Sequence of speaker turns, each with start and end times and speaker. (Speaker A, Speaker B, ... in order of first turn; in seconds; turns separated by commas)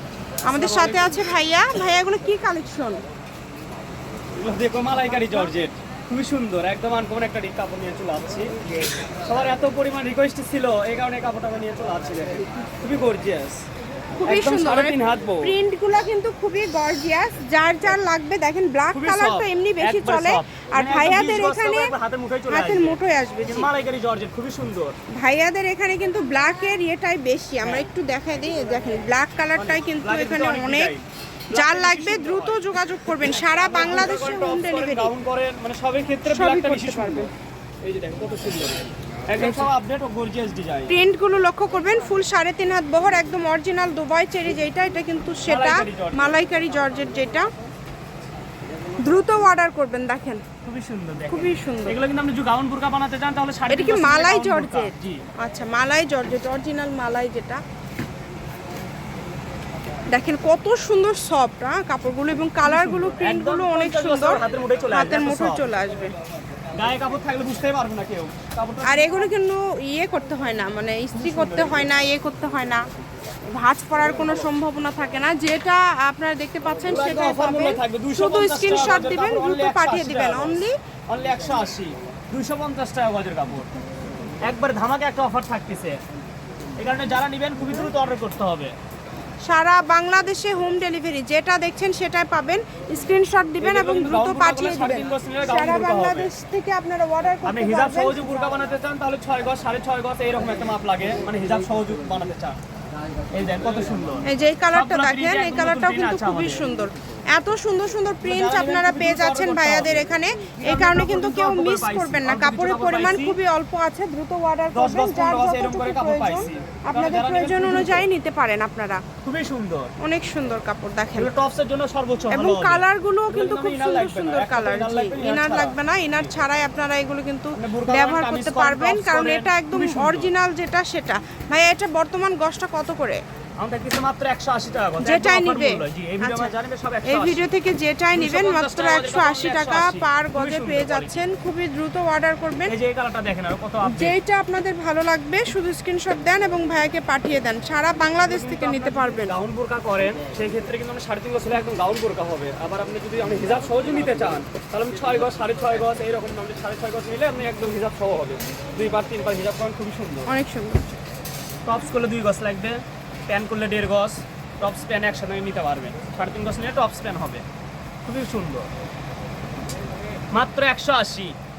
Speaker A: 0.4-3.0, Speaker B: 0.5-1.2, Speaker B: 4.4-8.5, Speaker A: 5.1-5.5, Speaker B: 9.2-13.6, Speaker A: 14.2-21.9, Speaker B: 14.3-15.6, Speaker B: 18.9-24.9, Speaker A: 22.5-23.7, Speaker A: 25.2-30.9, Speaker B: 29.6-37.3, Speaker A: 31.5-35.1, Speaker A: 36.3-37.3, Speaker B: 37.8-41.0, Speaker A: 39.4-39.7, Speaker A: 40.9-47.5, Speaker B: 45.5-46.4, Speaker A: 49.0-50.4, Speaker B: 50.6-55.2, Speaker A: 51.3-52.0, Speaker A: 53.7-57.6, Speaker A: 60.1-66.2, Speaker B: 62.6-65.7, Speaker B: 66.7-69.3, Speaker A: 68.8-72.8, Speaker B: 71.1-71.9, Speaker A: 73.5-80.8, Speaker B: 76.8-83.7, Speaker B: 84.4-86.0, Speaker B: 86.8-88.8, Speaker A: 89.4-98.6, Speaker B: 93.6-96.3, Speaker B: 97.5-102.6, Speaker B: 103.3-106.7, Speaker A: 104.3-119.0, Speaker B: 108.2-110.1, Speaker B: 110.6-113.4, Speaker B: 114.7-118.1, Speaker B: 119.2-119.9, Speaker A: 120.0-121.3, Speaker B: 121.2-126.2, Speaker A: 122.3-133.2, Speaker B: 127.6-130.3, Speaker B: 133.6-137.4, Speaker A: 135.0-136.5, Speaker A: 137.1-142.7, Speaker B: 138.1-141.2, Speaker B: 142.7-144.2, Speaker A: 143.9-149.3, Speaker B: 148.2-160.3, Speaker A: 160.3-160.9, Speaker B: 161.7-167.4, Speaker B: 168.1-168.7, Speaker B: 170.3-171.4